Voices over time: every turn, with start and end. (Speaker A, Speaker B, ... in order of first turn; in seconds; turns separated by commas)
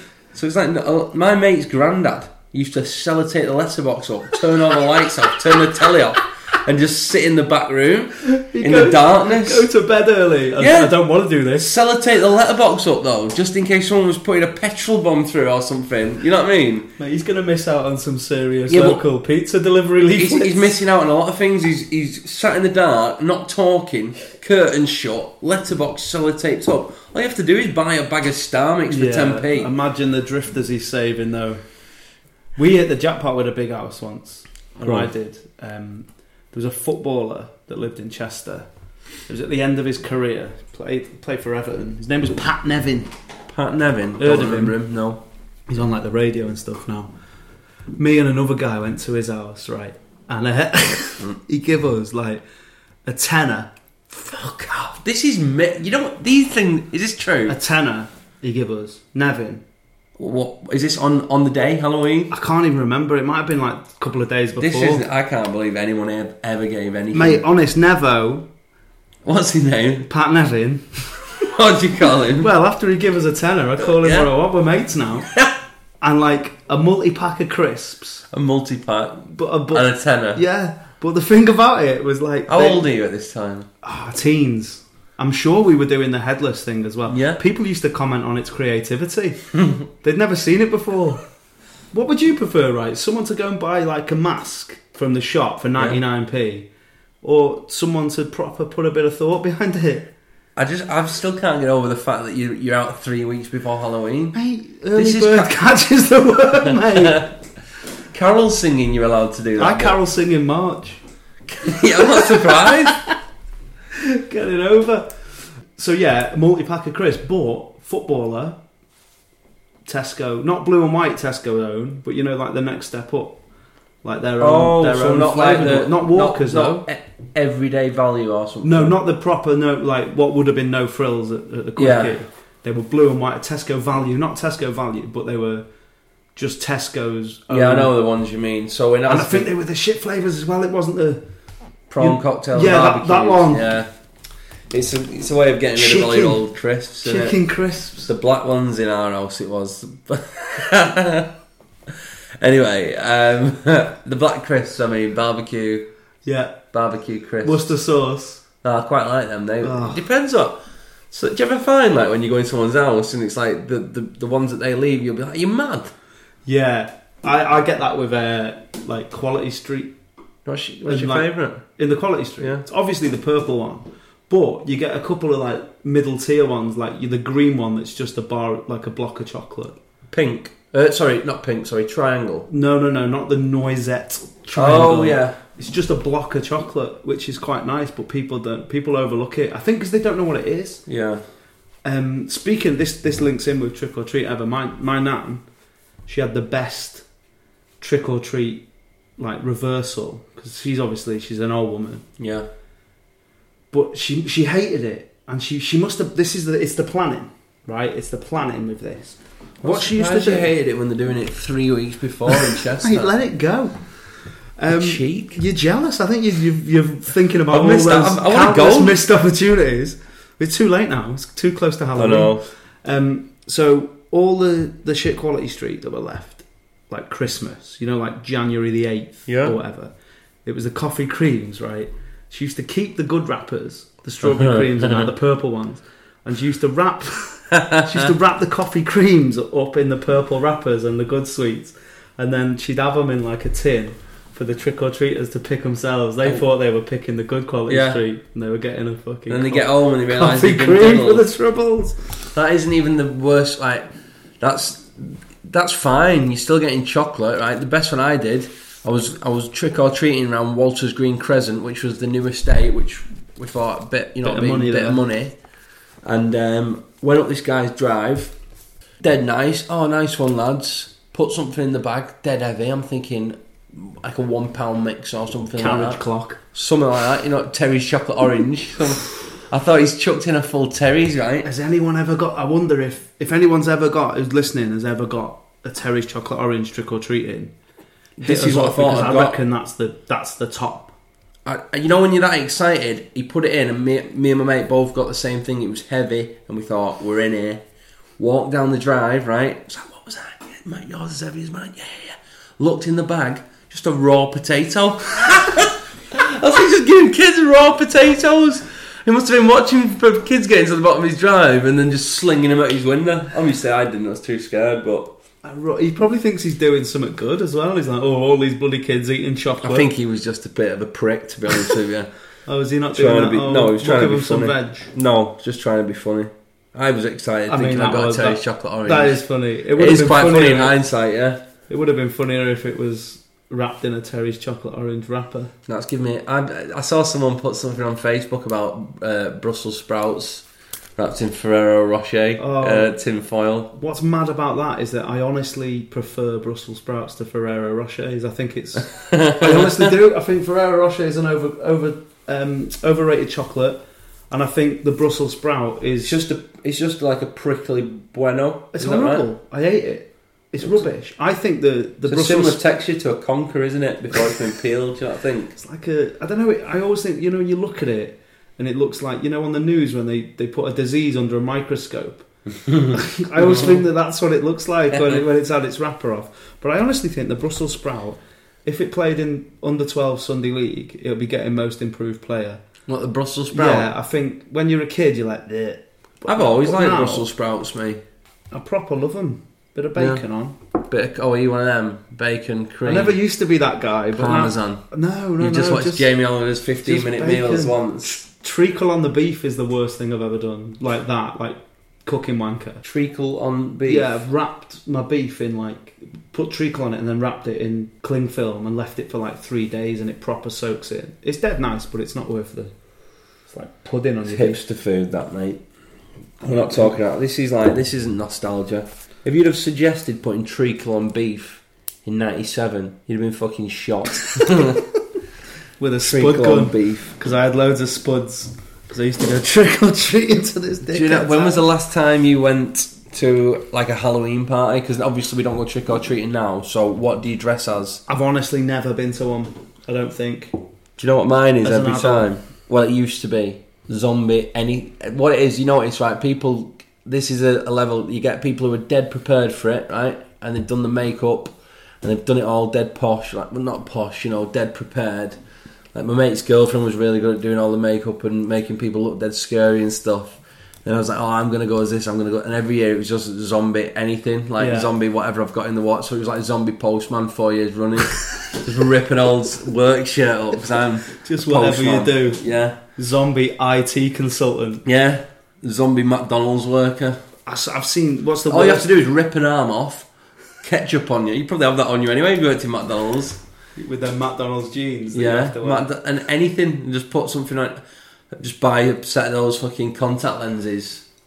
Speaker A: 0.3-9.7, Speaker B: 8.2-11.7, Speaker A: 10.6-11.0, Speaker A: 11.6-16.9, Speaker B: 17.0-20.8, Speaker A: 18.7-19.0, Speaker A: 20.1-29.7, Speaker B: 28.9-31.6, Speaker B: 32.6-38.7, Speaker A: 34.8-35.1, Speaker B: 39.3-43.1, Speaker A: 43.5-45.2, Speaker B: 44.2-44.8, Speaker B: 45.7-47.1, Speaker B: 48.0-52.4, Speaker B: 53.1-55.0, Speaker A: 55.0-57.6, Speaker B: 57.5-59.6, Speaker A: 60.2-62.3, Speaker B: 62.3-65.0, Speaker A: 64.6-67.4, Speaker B: 67.1-68.5, Speaker A: 69.2-70.1, Speaker B: 70.0-71.3, Speaker A: 71.5-72.5, Speaker B: 72.3-75.3, Speaker A: 73.8-74.3, Speaker B: 76.0-78.2, Speaker A: 78.3-80.4, Speaker B: 79.2-82.9, Speaker A: 82.5-83.7, Speaker B: 83.8-89.4, Speaker A: 87.1-87.4, Speaker A: 89.6-89.8, Speaker B: 90.0-91.2, Speaker B: 91.9-96.7, Speaker B: 97.2-100.1, Speaker A: 100.6-104.4, Speaker B: 104.3-107.3, Speaker A: 105.0-105.5, Speaker A: 106.6-107.3, Speaker A: 108.1-110.0, Speaker B: 109.6-111.0, Speaker A: 111.5-113.0, Speaker B: 111.8-113.1, Speaker B: 114.0-115.2, Speaker B: 115.7-118.6, Speaker B: 119.9-123.4, Speaker B: 124.0-126.8, Speaker A: 124.4-129.0, Speaker B: 128.6-135.7, Speaker A: 131.8-132.2, Speaker B: 136.3-137.9, Speaker A: 137.5-139.5, Speaker B: 139.1-141.2, Speaker A: 141.9-143.9, Speaker B: 142.0-143.7, Speaker A: 144.7-147.4, Speaker B: 145.8-146.4, Speaker B: 147.0-148.1, Speaker A: 148.0-151.3, Speaker A: 151.9-155.9, Speaker B: 156.2-156.6, Speaker A: 156.7-157.7, Speaker B: 157.4-158.4, Speaker A: 158.6-165.9, Speaker B: 159.6-160.0, Speaker B: 166.5-169.9, Speaker A: 170.5-171.6, Speaker B: 170.8-179.8, Speaker A: 180.1-182.5, Speaker B: 182.5-190.8, Speaker A: 184.5-185.4, Speaker A: 190.9-191.2, Speaker B: 191.8-195.4, Speaker B: 196.1-197.1, Speaker B: 197.8-198.6, Speaker B: 199.2-202.1, Speaker A: 202.2-202.5, Speaker B: 203.7-210.5, Speaker A: 209.6-213.1, Speaker B: 212.7-213.8, Speaker B: 214.6-229.9, Speaker A: 214.7-215.4, Speaker A: 217.5-219.0, Speaker A: 222.0-222.4, Speaker A: 229.3-229.6, Speaker B: 230.4-252.0, Speaker A: 234.2-235.1, Speaker A: 237.5-238.1, Speaker A: 247.7-248.0, Speaker A: 249.3-251.3, Speaker A: 252.3-253.9, Speaker A: 254.4-265.3, Speaker B: 264.2-265.0, Speaker A: 266.0-268.3, Speaker A: 269.0-276.0, Speaker B: 275.6-276.4, Speaker A: 276.5-281.5, Speaker B: 281.4-287.5, Speaker A: 288.2-289.4, Speaker B: 288.2-290.9, Speaker A: 291.4-297.6, Speaker A: 298.2-315.1, Speaker B: 315.4-319.9, Speaker A: 319.6-322.1, Speaker B: 322.5-324.9, Speaker A: 322.9-329.2, Speaker B: 327.5-330.8, Speaker A: 329.8-331.4, Speaker B: 331.7-335.5, Speaker A: 335.7-340.4, Speaker A: 341.0-343.7, Speaker B: 342.4-342.9, Speaker B: 343.7-356.2, Speaker A: 349.1-349.9, Speaker A: 356.0-359.3, Speaker B: 358.7-362.6, Speaker A: 362.1-365.5, Speaker B: 365.6-372.3, Speaker A: 372.7-373.8, Speaker B: 372.9-382.6, Speaker A: 374.9-375.2, Speaker A: 382.9-383.9, Speaker B: 383.5-387.3, Speaker A: 386.3-388.0, Speaker B: 388.5-390.6, Speaker A: 390.0-390.2, Speaker A: 390.9-393.2, Speaker B: 392.9-396.1, Speaker A: 394.1-394.8, Speaker A: 395.4-398.2, Speaker B: 396.8-402.8, Speaker A: 402.8-404.2, Speaker B: 403.9-412.7, Speaker B: 413.5-414.6, Speaker A: 414.3-415.6, Speaker A: 416.4-424.8, Speaker B: 416.4-416.9, Speaker B: 425.8-431.6, Speaker A: 426.0-427.1, Speaker A: 430.9-438.0, Speaker B: 438.1-440.6, Speaker A: 441.0-455.4, Speaker B: 441.6-442.3, Speaker A: 455.9-472.8, Speaker B: 464.6-464.9, Speaker B: 471.2-472.4, Speaker B: 473.0-474.8, Speaker A: 474.9-477.2, Speaker B: 477.5-478.9, Speaker A: 478.5-480.1, Speaker A: 480.6-483.4, Speaker B: 483.8-485.9, Speaker A: 485.1-491.0